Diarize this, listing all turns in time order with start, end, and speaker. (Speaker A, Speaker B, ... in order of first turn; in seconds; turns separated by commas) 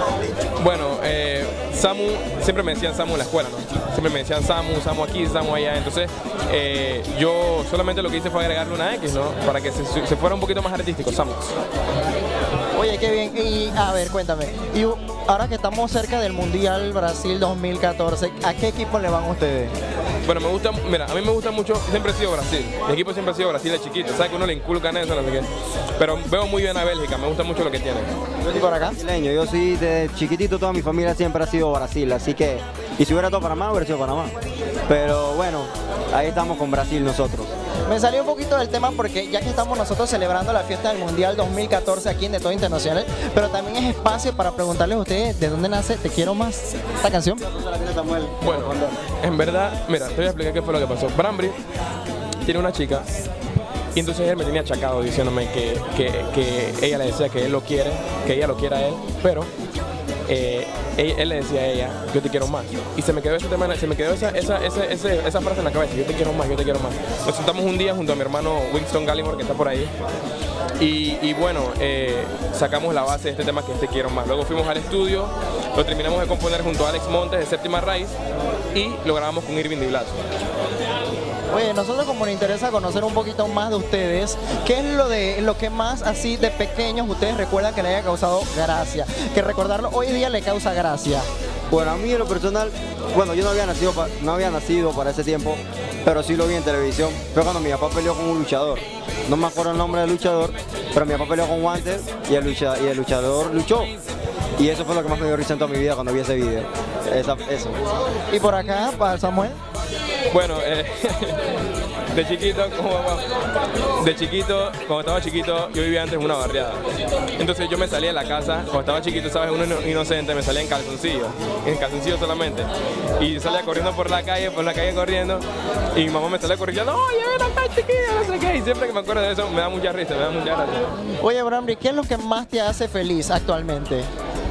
Speaker A: 0.6-11.6, Speaker B: 12.7-19.7, Speaker A: 20.2-28.1, Speaker B: 28.5-29.0, Speaker C: 28.9-34.3, Speaker C: 34.9-37.5, Speaker B: 37.9-47.4, Speaker C: 47.5-49.0, Speaker A: 48.4-51.6, Speaker A: 52.4-53.0, Speaker A: 53.9-59.5, Speaker A: 60.3-69.9, Speaker A: 70.8-78.2, Speaker A: 78.7-80.2, Speaker B: 81.5-91.3, Speaker C: 91.7-103.9, Speaker C: 104.6-107.8, Speaker B: 108.3-109.6, Speaker A: 110.3-111.5, Speaker A: 112.1-113.3, Speaker A: 114.0-116.8, Speaker A: 117.4-130.9, Speaker B: 131.2-134.1